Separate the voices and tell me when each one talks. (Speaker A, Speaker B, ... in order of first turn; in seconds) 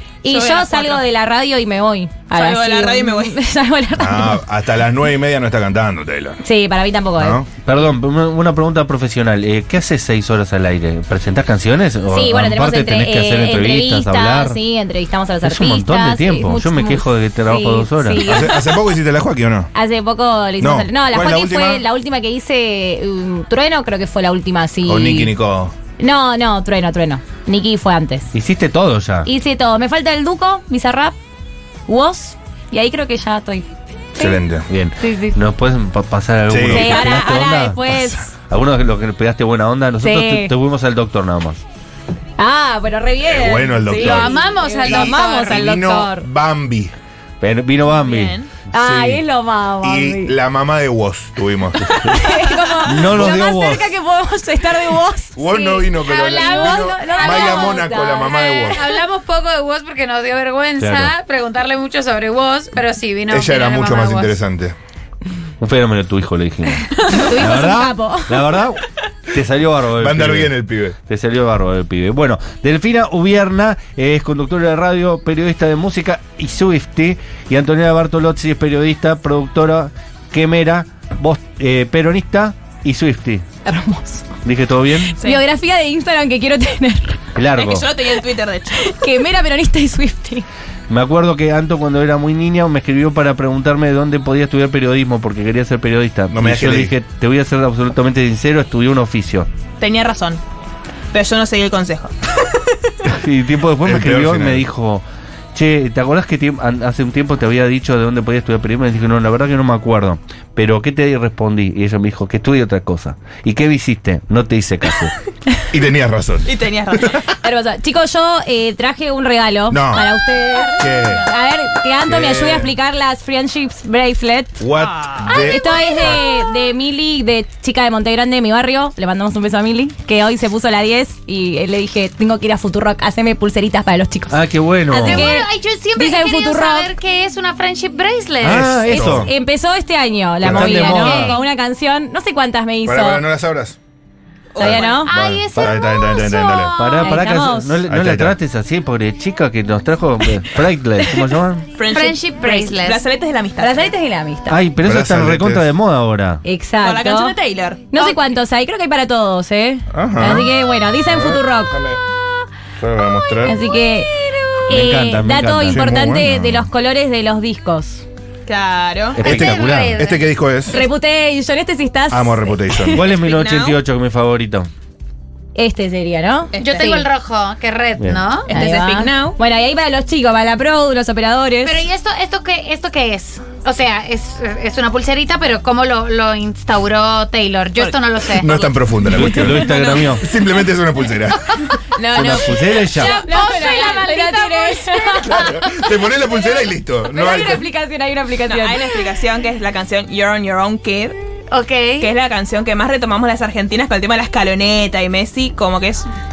Speaker A: 0.2-4.4, 6.4-7.4, 12.1-18.7, 19.7-25.3, 26.0-28.3, 29.2-31.1, 31.9-34.4, 35.0-35.4, 36.6-38.3, 40.0-40.5, 42.4-46.3, 48.7-50.4, 52.0-58.9, 67.1-68.4, 83.6-84.3, 85.1-87.2, 88.8-90.4, 117.4-124.6, 125.3-136.9, 139.1-143.2, 144.6-145.2, 147.0-147.8, 153.6-154.6, 156.4-157.3, 157.9-161.8, 163.4-164.1, 164.7-168.0, 170.7-173.0, 175.6-177.1, 178.5-181.8, 192.0-196.2, 197.1-198.9
Speaker B: 0.2-1.0, 2.3-3.4, 47.9-48.5, 87.5-88.9, 99.8-100.4, 101.1-102.1, 116.5-117.2, 124.8-125.2, 144.5-145.1, 151.8-153.9, 156.8-157.8, 168.5-169.2, 173.0-173.8, 176.5-177.0, 178.4-179.4, 187.8-190.2, 192.0-193.2, 198.5-201.2, 202.0-206.1
Speaker C: 4.0-6.4, 7.2-7.5, 18.2-19.7, 20.6-21.8, 24.8-25.7, 34.1-34.7, 36.5-37.1, 43.2-46.9, 48.8-49.2, 49.8-51.9, 55.4-58.9, 63.3-64.8, 70.0-71.0, 96.3-96.9, 103.8-104.6, 115.7-117.2, 119.7-120.2, 120.7-121.3, 122.0-122.7, 124.6-126.2, 138.4-139.3, 140.4-140.8, 142.8-143.8, 144.6-147.1, 147.8-148.3, 154.8-155.7, 159.9-160.5, 161.0-162.0, 162.8-163.6, 165.7-166.7, 169.2-170.8, 172.1-173.1, 188.4-189.7, 190.2-191.7, 195.2-197.7
Speaker D: 7.6-14.6, 15.4-18.3, 28.3-29.3, 34.7-41.6, 47.4-48.4, 52.8-53.9, 60.8-61.1, 65.6-70.5, 71.1-83.5, 84.4-85.2, 87.3-87.9, 90.9-99.5, 103.0-115.1, 134.3-135.3, 138.4-139.3, 140.4-141.3, 146.8-151.7, 154.5-156.4, 164.7-165.9, 169.1-170.0, 172.9-174.7, 189.1-190.2, 192.1-193.1
Speaker E: 43.9-46.0, 56.0-64.4, 125.2-126.3, 135.0-139.2, 140.5-141.4, 145.1-147.3, 151.9-153.0, 169.2-170.3, 176.6-178.5, 181.6-188.5, 192.9-195.6, 201.5-202.1